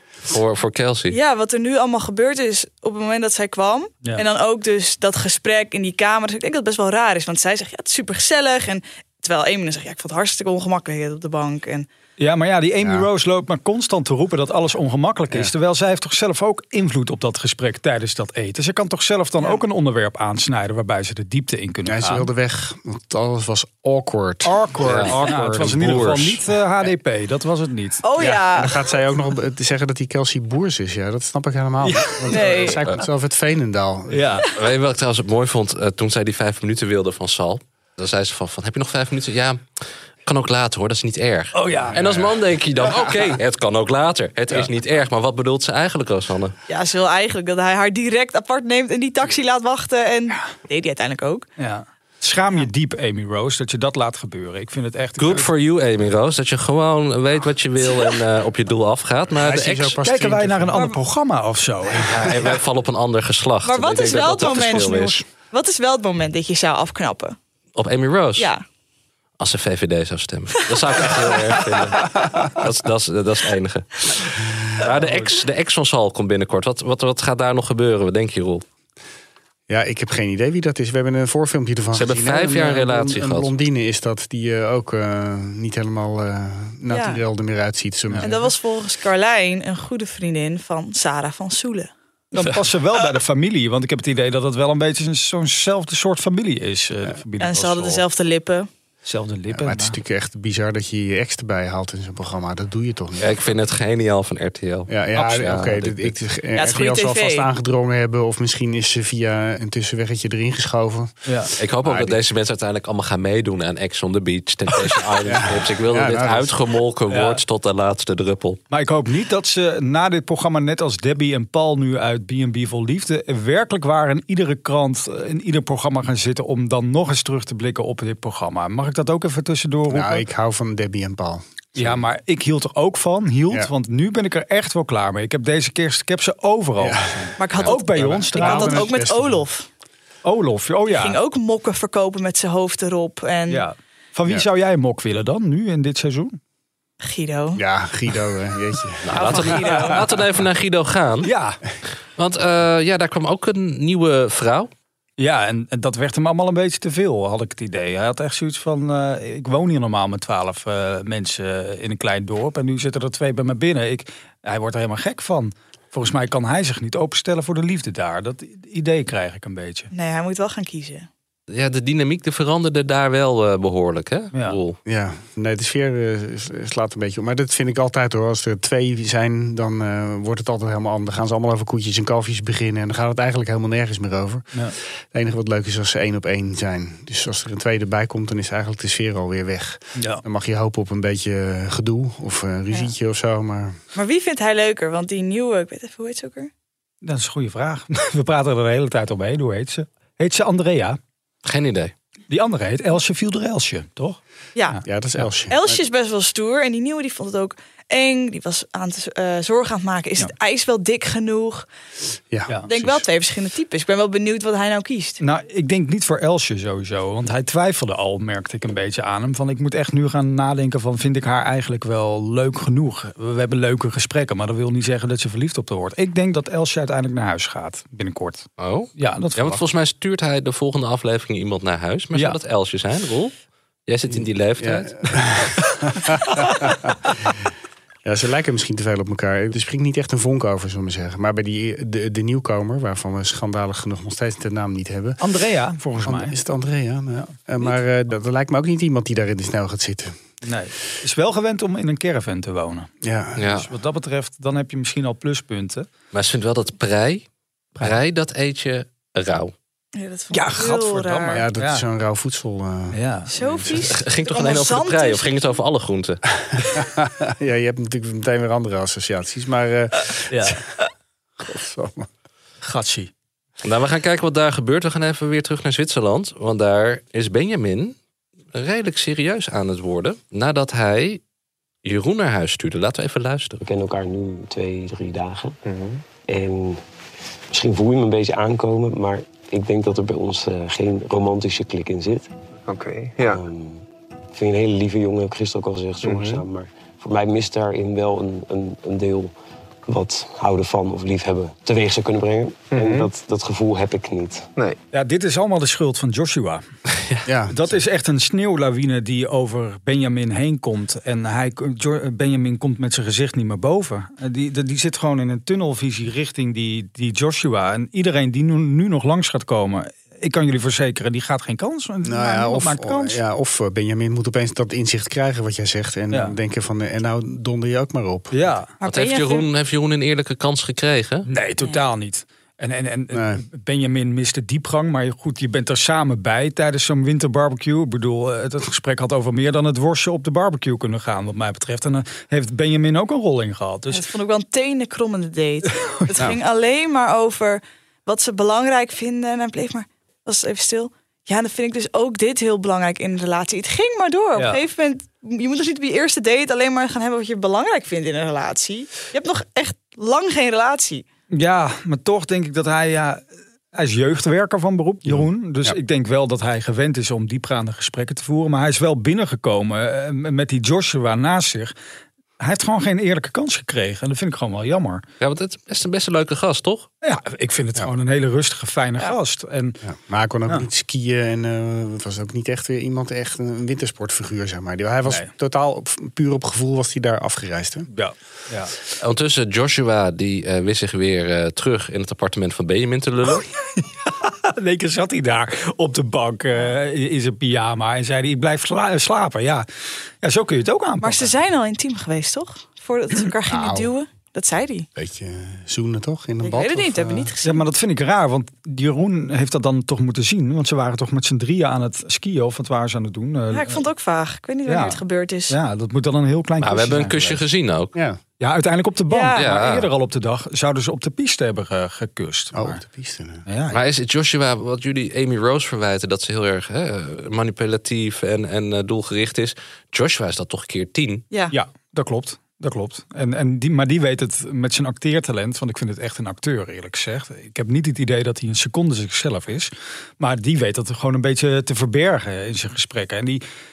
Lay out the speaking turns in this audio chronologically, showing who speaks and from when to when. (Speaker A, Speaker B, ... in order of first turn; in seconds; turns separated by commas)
Speaker A: 0.3-1.2, Speaker B: 1.1-11.9, Speaker C: 12.2-22.3, Speaker D: 12.8-13.1, Speaker D: 21.9-26.1, Speaker C: 24.4-28.0, Speaker A: 24.8-26.4, Speaker B: 28.0-28.8, Speaker D: 28.2-34.4, Speaker C: 31.8-32.7, Speaker B: 32.3-32.8, Speaker C: 34.1-34.5, Speaker A: 34.6-39.6, Speaker A: 40.2-46.6, Speaker C: 41.5-42.3, Speaker B: 46.7-51.5, Speaker C: 51.6-55.5, Speaker A: 55.2-60.0, Speaker D: 59.4-60.8, Speaker C: 60.0-62.3, Speaker A: 62.1-65.2, Speaker B: 63.6-67.4, Speaker C: 64.5-65.2, Speaker A: 67.8-68.5, Speaker B: 68.4-68.6, Speaker A: 69.4-78.6, Speaker D: 79.7-88.5, Speaker A: 81.9-83.5, Speaker B: 86.9-87.2, Speaker B: 88.2-91.9, Speaker C: 92.3-98.0, Speaker B: 97.4-98.7, Speaker C: 99.0-100.0, Speaker D: 99.5-103.5, Speaker A: 103.2-106.1, Speaker D: 104.9-111.2, Speaker B: 106.6-107.5, Speaker C: 111.3-111.5, Speaker A: 111.6-118.6, Speaker D: 111.8-112.2, Speaker D: 115.2-116.6, Speaker C: 117.1-117.4, Speaker C: 118.7-130.2, Speaker D: 129.9-132.0, Speaker C: 131.8-138.9, Speaker D: 136.8-139.4, Speaker B: 137.4-139.7, Speaker C: 140.2-141.2, Speaker B: 140.9-143.7, Speaker C: 143.5-146.4, Speaker B: 147.0-147.6, Speaker D: 147.6-149.9, Speaker A: 149.1-151.3, Speaker B: 149.2-149.9, Speaker C: 151.2-151.6, Speaker A: 152.2-154.7, Speaker C: 155.2-169.9, Speaker B: 169.9-171.1, Speaker A: 171.5-174.8, Speaker C: 174.3-174.6, Speaker D: 174.9-193.8, Speaker C: 190.0-190.2, Speaker B: 193.9-196.5, Speaker C: 197.0-201.0, Speaker A: 201.4-201.9, Speaker C: 202.3-205.2, Speaker B: 204.6-204.8, Speaker D: 204.8-205.8, Speaker B: 205.5-211.7, Speaker D: 212.3-213.0, Speaker B: 212.7-215.2, Speaker C: 215.2-229.6, Speaker A: 228.6-233.3, Speaker A: 233.9-235.1, Speaker D: 234.1-237.4, Speaker D: 238.1-245.2, Speaker C: 245.2-246.4, Speaker D: 246.1-250.2, Speaker C: 250.4-252.9, Speaker D: 253.0-253.6, Speaker A: 253.4-253.7, Speaker C: 253.5-255.9, Speaker A: 256.1-257.2, Speaker A: 257.8-259.5, Speaker B: 259.9-261.4, Speaker C: 260.3-261.8, Speaker D: 261.4-263.6, Speaker C: 262.9-263.3, Speaker B: 263.3-265.5, Speaker A: 263.7-266.2, Speaker D: 266.8-270.6, Speaker C: 270.3-270.8, Speaker D: 271.4-272.1, Speaker C: 272.6-273.1, Speaker A: 273.6-277.9, Speaker A: 278.5-281.2, Speaker A: 281.8-283.6, Speaker E: 283.6-285.6, Speaker E: 286.3-286.8, Speaker E: 287.5-292.3, Speaker E: 293.2-293.8, Speaker E: 294.3-299.3, Speaker E: 299.9-304.5, Speaker C: 304.9-306.6, Speaker D: 307.3-307.7, Speaker C: 307.5-323.2, Speaker D: 322.0-328.6, Speaker C: 328.3-328.7, Speaker B: 328.8-329.5, Speaker A: 328.9-331.3, Speaker C: 331.2-344.1, Speaker D: 333.1-333.4, Speaker B: 343.9-361.1, Speaker C: 345.9-346.1, Speaker C: 354.4-354.6, Speaker C: 361.3-371.7, Speaker D: 365.1-365.8, Speaker C: 372.4-375.0, Speaker A: 375.2-376.9, Speaker C: 377.0-379.8, Speaker D: 379.8-387.9, Speaker C: 385.1-385.3, Speaker C: 387.9-388.7, Speaker A: 389.0-393.5, Speaker C: 393.8-399.7, Speaker C: 400.2-401.3, Speaker B: 401.0-404.9, Speaker D: 403.5-403.9, Speaker D: 405.0-407.3, Speaker B: 406.4-407.6, Speaker C: 407.4-413.8, Speaker B: 413.5-415.6, Speaker C: 414.7-417.4, Speaker A: 416.6-417.9, Speaker D: 417.9-418.2, Speaker C: 418.4-422.8, Speaker B: 419.1-419.5, Speaker A: 419.4-419.9, Speaker D: 422.5-423.4, Speaker C: 423.5-423.8, Speaker A: 423.7-431.2, Speaker C: 431.5-443.4